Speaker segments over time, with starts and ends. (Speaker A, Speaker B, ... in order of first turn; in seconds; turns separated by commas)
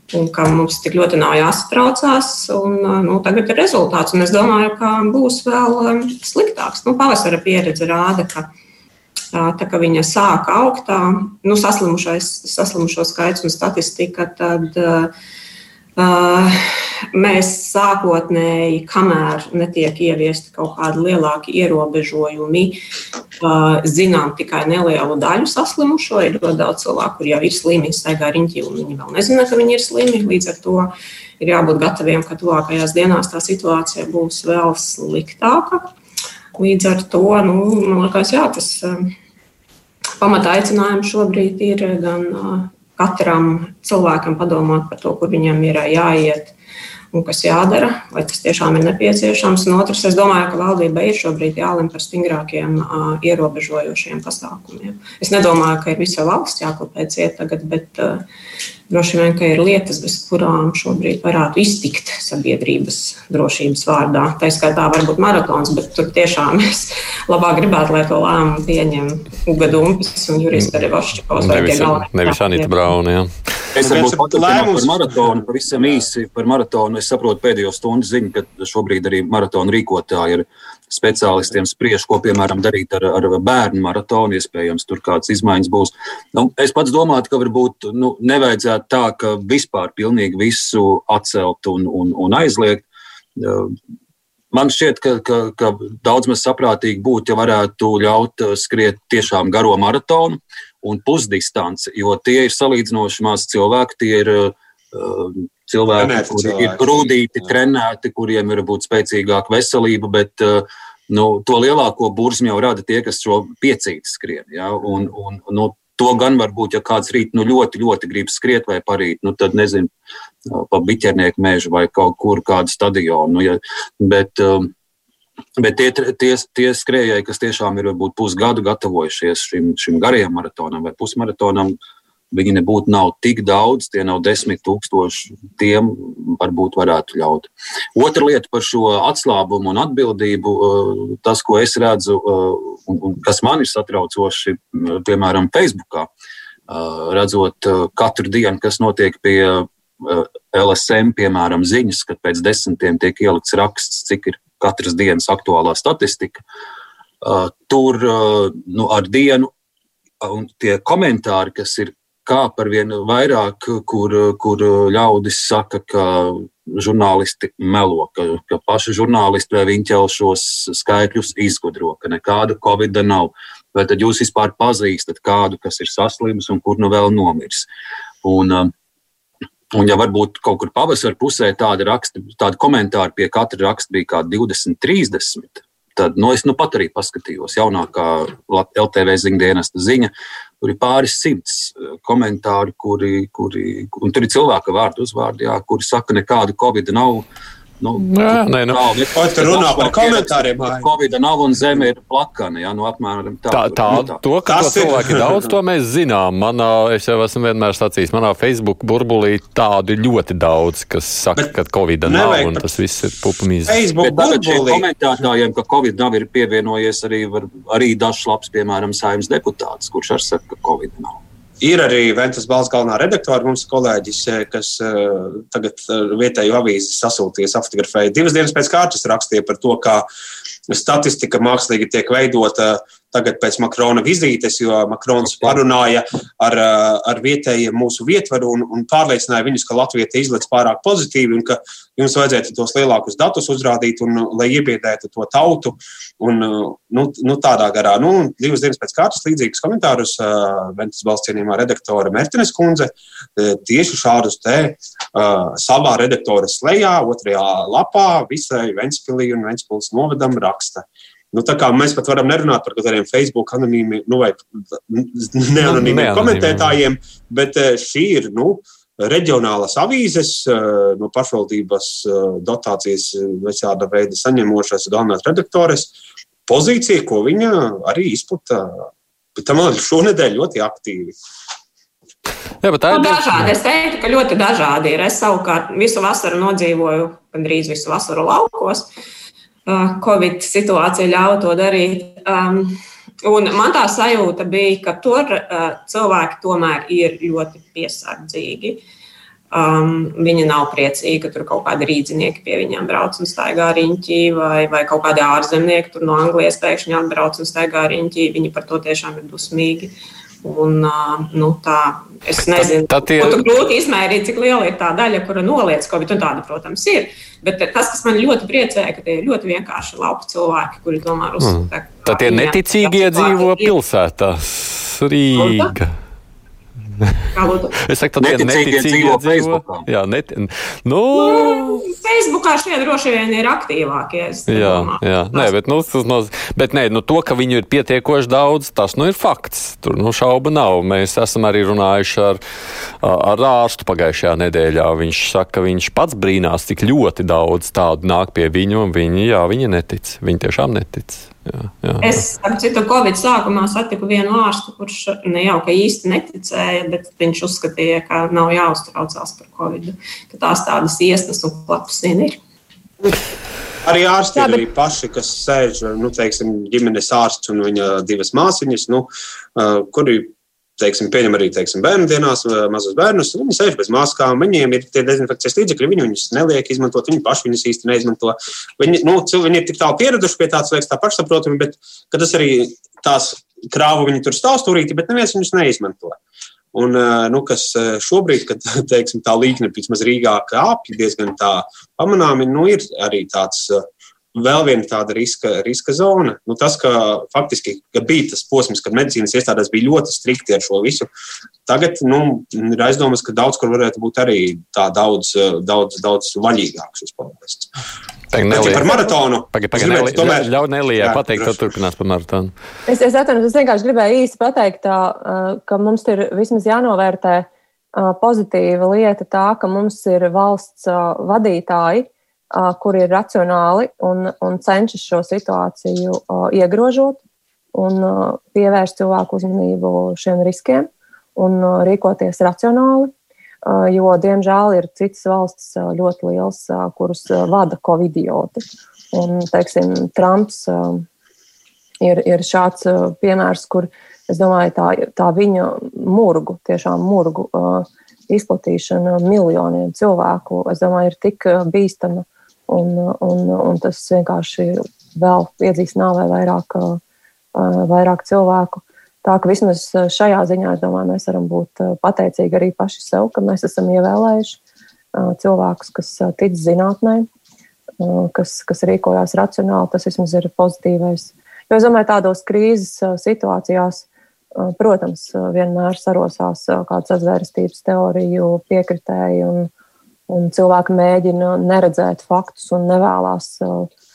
Speaker A: 0.1-8.5, Speaker A: 9.3-15.1, Speaker A: 16.0-22.8, Speaker A: 23.4-35.9, Speaker A: 36.5-39.1, Speaker A: 40.2-46.5, Speaker A: 47.1-58.2, Speaker A: 58.9-72.8, Speaker B: 71.3-73.3, Speaker C: 73.7-92.8, Speaker D: 73.8-76.0, Speaker C: 93.3-93.7, Speaker C: 94.5-119.9, Speaker D: 106.0-107.1, Speaker C: 120.5-124.7, Speaker C: 125.6-131.8, Speaker C: 132.3-146.1, Speaker C: 146.7-156.4, Speaker C: 157.2-159.5, Speaker C: 160.2-177.6, Speaker C: 178.2-178.7, Speaker C: 179.7-197.2, Speaker C: 197.8-204.2, Speaker B: 198.0-198.8, Speaker D: 199.1-200.9, Speaker B: 203.5-213.8, Speaker D: 204.4-205.5, Speaker D: 212.0-212.7, Speaker D: 213.7-214.8, Speaker C: 214.0-221.2, Speaker D: 221.6-230.1, Speaker D: 230.7-275.9, Speaker B: 265.6-266.8, Speaker D: 276.5-281.1, Speaker B: 282.6-283.5, Speaker A: 282.9-288.9, Speaker A: 289.6-298.8, Speaker A: 299.5-323.7, Speaker B: 312.5-313.4, Speaker B: 321.4-325.9, Speaker A: 325.3-325.7, Speaker B: 327.0-327.3, Speaker A: 327.3-327.8, Speaker B: 327.8-331.8, Speaker C: 328.2-329.9, Speaker A: 331.1-335.5, Speaker B: 334.5-342.4, Speaker B: 343.0-352.2, Speaker A: 352.0-362.4, Speaker D: 363.8-386.2, Speaker E: 364.3-364.6, Speaker D: 386.7-401.1, Speaker D: 401.6-407.7, Speaker B: 408.3-412.5, Speaker D: 408.4-411.7, Speaker E: 412.9-427.2, Speaker E: 427.7-433.1, Speaker E: 433.6-441.1, Speaker E: 442.0-457.0, Speaker E: 457.5-464.6, Speaker E: 465.1-467.3, Speaker E: 468.0-479.7, Speaker E: 480.3-483.9